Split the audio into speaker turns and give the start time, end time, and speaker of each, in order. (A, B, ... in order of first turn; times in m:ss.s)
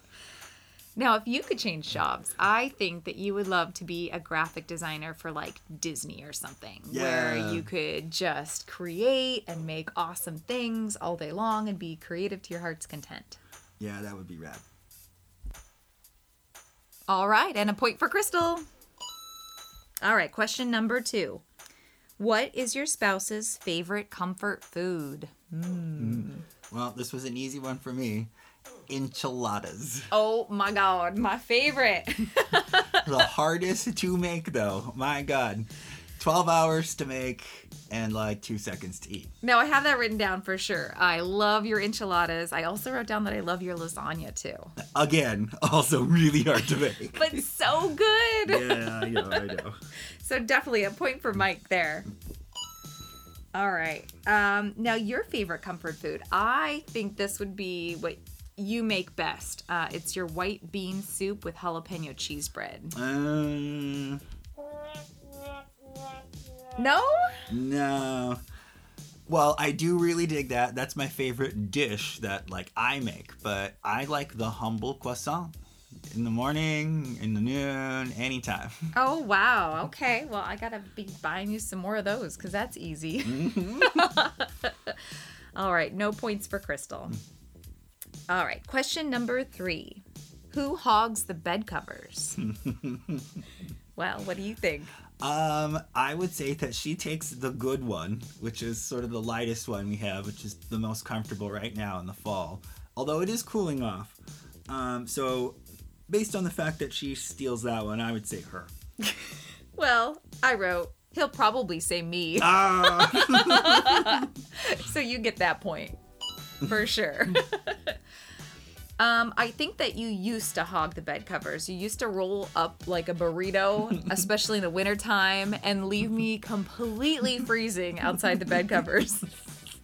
0:01.0-0:13.4 A
0:06.9-0:07.7 B
0:13.8-0:14.6 B
0:17.1-0:18.6 A
0:20.0-0:21.4 A
0:22.2-0:26.4 A
0:26.0-0:28.3 B
0:28.9-0:30.1 B
0:30.1-0:33.2 A
0:32.9-0:39.3 B
0:39.4-0:44.7 A
0:44.8-0:47.4 B
0:47.1-0:49.6 A
0:48.4-0:49.8 B
0:50.2-0:52.1 A
0:53.6-1:02.9 A
1:02.9-1:04.2 B
1:06.8-1:07.4 A
1:07.5-1:08.4 B
1:09.3-1:15.6 B
1:16.1-1:18.9 B
1:19.0-1:27.2 A
1:23.2-1:24.1 B
1:28.3-1:32.4 A
1:32.5-1:33.2 B
1:34.0-1:35.0 A
1:35.1-1:44.2 B
1:44.7-1:45.6 B
1:46.1-1:48.7 B
1:49.8-1:56.0 A
1:52.4-1:54.3 B
1:56.6-1:58.0 A
1:59.0-2:09.4 A